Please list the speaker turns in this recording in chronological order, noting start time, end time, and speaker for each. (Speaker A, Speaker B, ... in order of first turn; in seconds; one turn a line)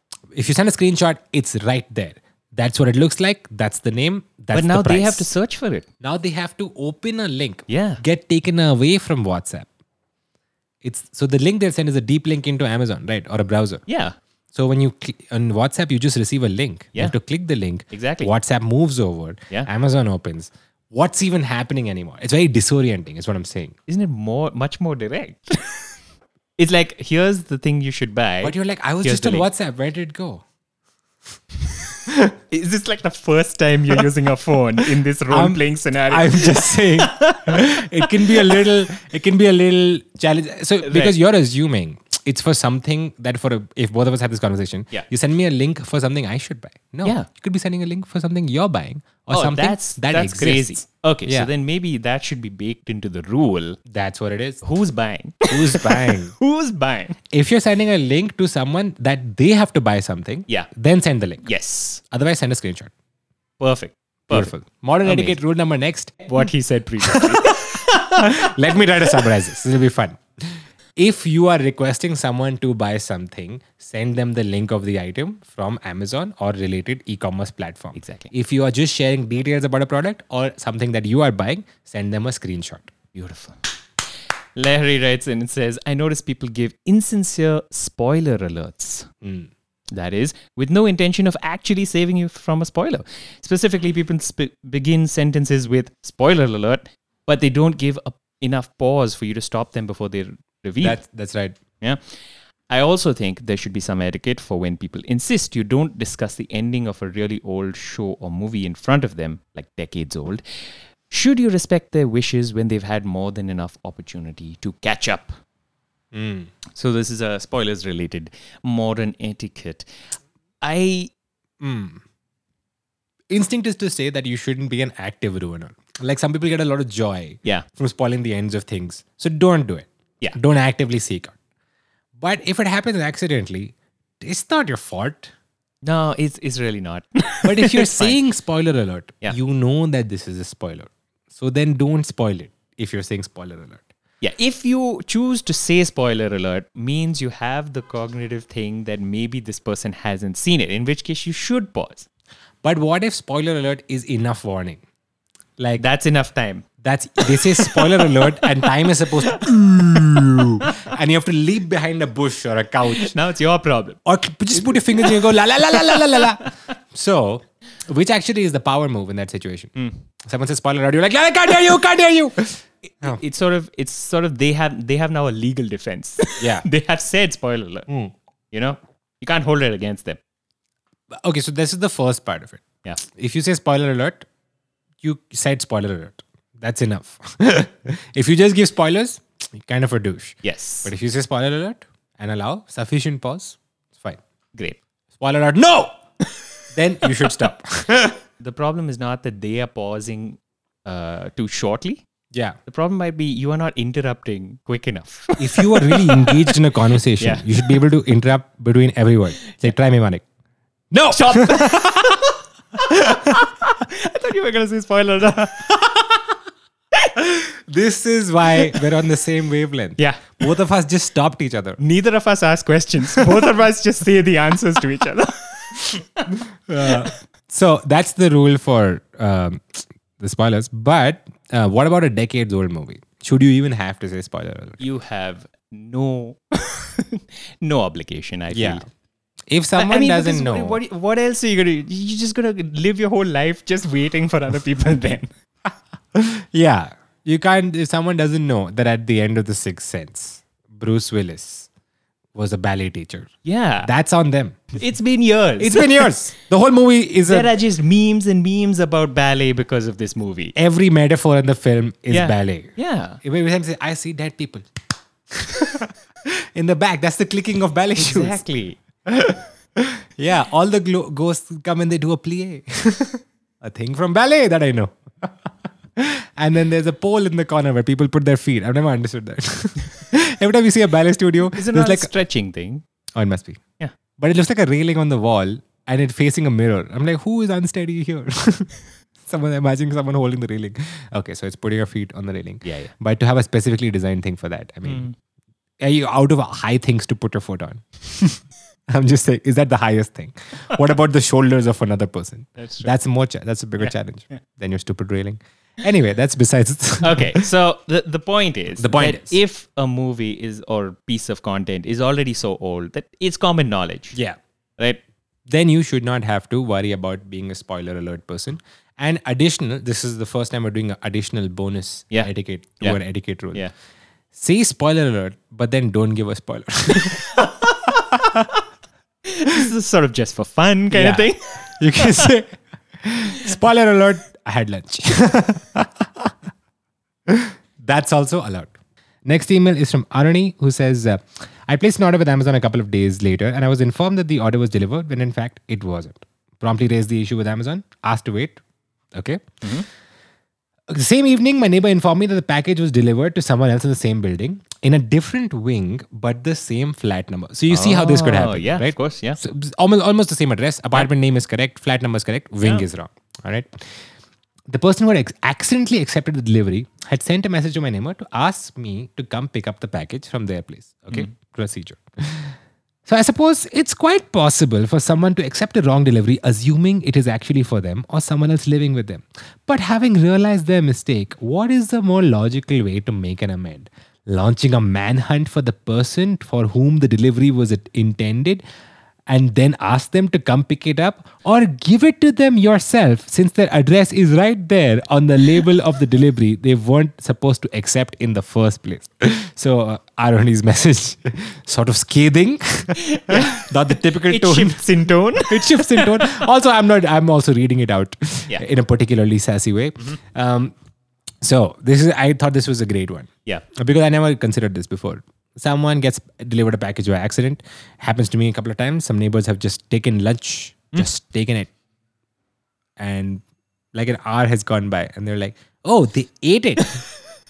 Speaker A: 0.3-5.3
Speaker B: 4.5-5.9
Speaker A: 6.0-9.7
Speaker B: 7.7-8.0
Speaker A: 10.8-13.8
Speaker B: 13.9-14.2
Speaker A: 14.5-23.8
Speaker B: 17.9-18.3
Speaker B: 23.9-25.9
Speaker B: 26.6-29.5
Speaker A: 28.4-30.4
Speaker A: 32.1-32.3
Speaker B: 32.5-38.6
Speaker A: 35.3-51.5
Speaker B: 40.8-41.1
Speaker B: 49.3-53.8
Speaker A: 53.9-54.6
Speaker B: 54.6-57.2
Speaker A: 55.5-56.3
Speaker A: 57.3-61.5
Speaker B: 61.4-62.0
Speaker A: 62.0-62.9
Speaker B: 63.6-65.4
Speaker A: 64.3-66.3
Speaker B: 66.3-68.5
Speaker A: 67.0-67.6
Speaker A: 68.2-82.9
Speaker B: 78.0-78.3
Speaker B: 83.1-83.6
Speaker B: 84.5-89.1
Speaker A: 89.2-89.5
Speaker B: 89.9-101.0
Speaker A: 100.8-101.6
Speaker B: 102.7-110.4
Speaker B: 111.1-115.4
Speaker A: 116.1-116.5
Speaker B: 116.8-119.9
Speaker B: 120.6-121.1
Speaker A: 121.6-122.0
Speaker A: 123.3-131.3
Speaker A: 132.2-135.3
Speaker B: 135.8-138.2
Speaker A: 137.4-143.9
Speaker B: 144.2-152.1
Speaker A: 152.6-154.8
Speaker A: 155.6-155.8
Speaker B: 155.8-156.7
Speaker A: 156.8-163.1
Speaker B: 157.2-158.3
Speaker B: 162.9-164.0
Speaker A: 164.1-173.2
Speaker B: 164.5-166.5
Speaker B: 173.0-177.9
Speaker A: 176.4-176.7
Speaker B: 178.5-180.2
Speaker A: 181.1-184.3
Speaker A: 185.0-194.2
Speaker B: 190.4-190.9
Speaker B: 194.6-194.8
Speaker A: 195.2-196.0
Speaker A: 196.7-198.2
Speaker B: 198.4-202.0
Speaker B: 202.7-206.6
Speaker A: 205.4-210.2
Speaker B: 207.2-207.5
Speaker A: 210.9-212.2
Speaker B: 211.1-215.7
Speaker A: 217.2-221.8
Speaker B: 220.0-220.4
Speaker B: 221.8-226.3
Speaker A: 226.7-234.8
Speaker B: 226.8-227.1
Speaker B: 234.8-238.9
Speaker A: 238.5-238.8
Speaker A: 239.5-240.8
Speaker B: 239.8-245.3
Speaker A: 246.2-251.7
Speaker A: 252.3-253.3
Speaker B: 253.4-253.9
Speaker A: 253.8-254.8
Speaker B: 254.8-256.1
Speaker A: 255.6-257.5
Speaker B: 257.3-260.6
Speaker A: 260.6-264.7
Speaker B: 262.1-263.2
Speaker A: 265.3-268.4
Speaker B: 268.0-268.8
Speaker A: 269.1-282.1
Speaker B: 281.5-282.8
Speaker A: 283.1-283.6
Speaker A: 284.2-288.7
Speaker A: 289.2-295.1
Speaker B: 292.6-292.9
Speaker B: 294.9-295.1
Speaker A: 295.8-307.5
Speaker B: 302.6-302.9
Speaker B: 303.8-304.4
Speaker B: 307.0-314.2
Speaker A: 308.8-309.4
Speaker A: 315.5-323.7
Speaker A: 324.3-327.4
Speaker B: 329.3-332.3
Speaker A: 330.9-336.3
Speaker A: 337.3-348.6
Speaker A: 349.1-349.4
Speaker A: 350.9-364.0
Speaker B: 357.7-359.4
Speaker A: 364.7-372.6
Speaker A: 373.1-388.6
Speaker A: 389.3-404.8
Speaker B: 403.0-406.4
Speaker A: 405.4-410.7
Speaker A: 411.4-421.7
Speaker A: 423.0-423.4
Speaker A: 423.9-427.0